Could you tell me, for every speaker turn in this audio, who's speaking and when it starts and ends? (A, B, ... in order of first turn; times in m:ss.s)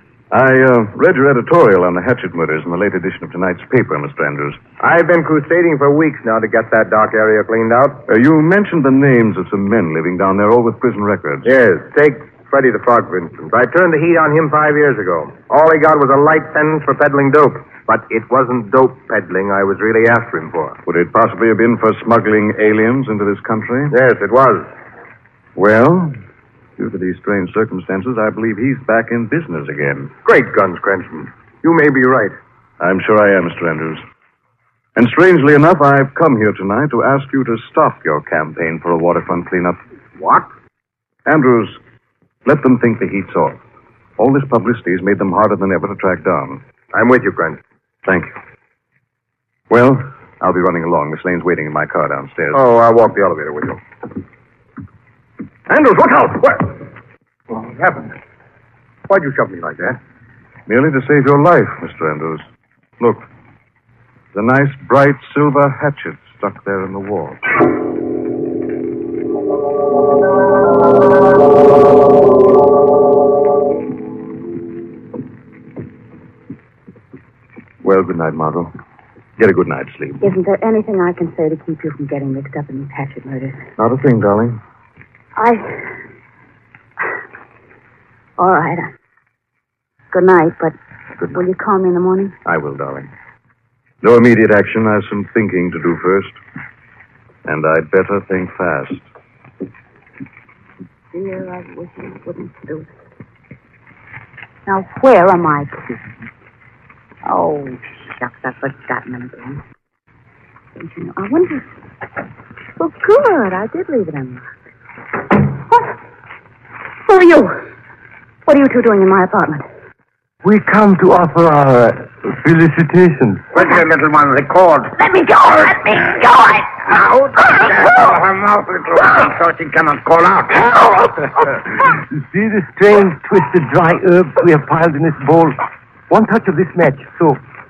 0:00.3-0:04.6 A
0:04.8-0:08.0 B
0:08.1-0:11.5 A
0:11.4-0:20.8 B
0:20.8-0:23.9 A
0:23.9-0:24.7 B
0:25.6-0:26.1 A
0:26.8-0:30.2 A
0:30.2-0:32.3 B
0:32.8-0:34.0 A
0:35.0-0:39.8 A
0:41.2-0:41.8 A
0:42.4-0:43.6 A
0:44.2-0:46.6 A
0:46.9-0:47.6 B
0:48.0-0:48.4 A
0:49.7-0:52.6 A
0:52.5-0:53.8 B
0:55.7-0:56.4 A
0:57.7-0:58.0 B
0:59.3-0:59.6 B
1:00.7-1:02.4 A
1:03.0-1:03.3 A
1:04.3-1:07.5 A
1:17.8-1:18.7 A
1:19.4-1:20.3 A
1:20.2-1:23.6 C
1:23.8-1:24.6 A
1:25.4-1:25.9 C
1:28.4-1:28.9 C
1:30.1-1:30.7 C
1:31.3-1:32.3 C
1:32.4-1:33.1 A
1:34.0-1:36.4 A
1:37.4-1:39.1 A
1:41.1-1:42.9 C
1:44.6-1:45.9 C
1:47.2-1:49.6 C
1:50.8-1:51.7 C
1:52.8-1:54.4 C
1:57.0-1:57.6 C
1:58.4-1:59.6 C
2:00.4-2:03.5 D
2:03.5-2:05.0 E
2:05.0-2:06.7 C
2:06.8-2:11.1 E
2:11.9-2:17.4 D